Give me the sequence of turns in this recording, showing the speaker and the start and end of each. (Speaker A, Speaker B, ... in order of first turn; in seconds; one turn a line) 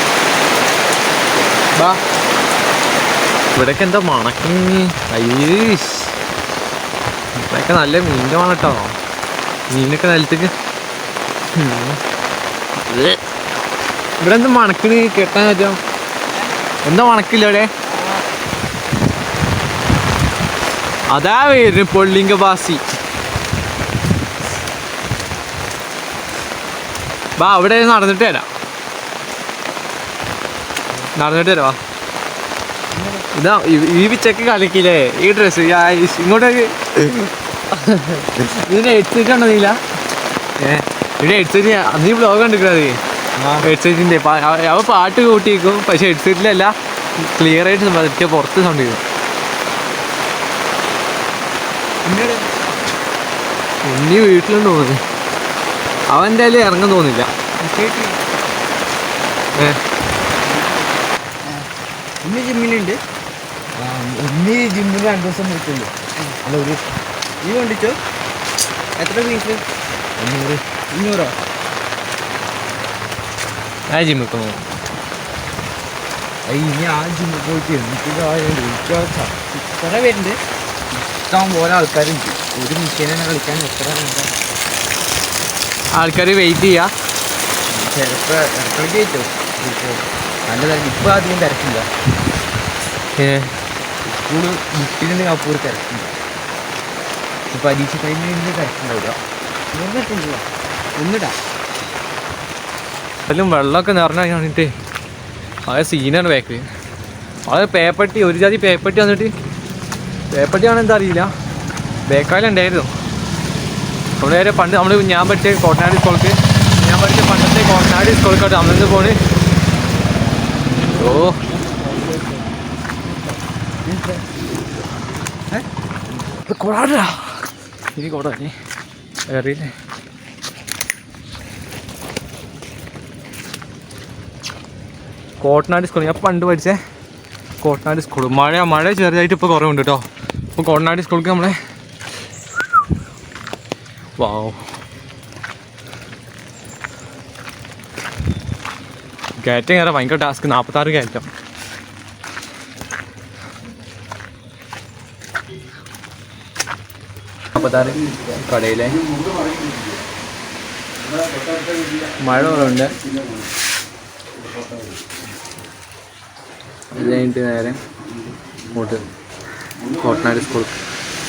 Speaker A: 3.5-6.1
Speaker A: 7.4-8.9
Speaker A: 9.7-10.5
Speaker B: 11.6-11.9
Speaker A: 12.9-13.2
Speaker A: 14.2-15.8
Speaker A: 16.8-17.7
Speaker A: 21.1-22.8
Speaker A: 27.4-28.5
Speaker A: 31.1-31.8
Speaker B: 33.0-33.2
Speaker A: 33.3-39.8
Speaker A: 40.6-43.0
Speaker B: 43.4-43.7
Speaker A: 43.6-49.0
Speaker B: 52.0-52.5
Speaker A: 53.8-55.0
Speaker A: 56.1-57.3
Speaker B: 57.6-58.2
Speaker B: 60.4-61.6
Speaker B: 62.2-63.0
Speaker B: 63.8-66.8
Speaker B: 67.4-68.0
Speaker B: 69.0-69.6
Speaker B: 70.2-71.3
Speaker A: 73.9-74.6
Speaker B: 76.5-80.4
Speaker B: 81.2-84.3
Speaker A: 85.9-86.9
Speaker B: 87.7-91.9
Speaker A: 93.2-93.5
Speaker B: 94.0-96.1
Speaker B: 97.5-99.2
Speaker B: 99.7-101.4
Speaker A: 103.3-104.7
Speaker A: 105.7-106.7
Speaker A: 107.5-109.3
Speaker A: 110.3-111.3
Speaker A: 112.1-112.9
Speaker A: 114.2-119.2
Speaker A: 120.9-121.4
Speaker B: 123.8-124.2
Speaker A: 126.5-127.2
Speaker A: 127.9-128.5
Speaker A: 129.3-129.7
Speaker A: 135.4-136.8
Speaker A: 137.6-141.6
Speaker A: 144.2-144.6
Speaker A: 149.4-151.3
Speaker A: 157.6-159.0
Speaker B: 157.7-158.2
Speaker B: 158.9-160.0
Speaker B: 161.0-163.5
Speaker A: 162.2-162.9
Speaker B: 164.4-164.9
Speaker A: 166.9-167.8
Speaker A: 168.7-169.0
Speaker B: 169.8-170.1
Speaker A: 169.9-170.7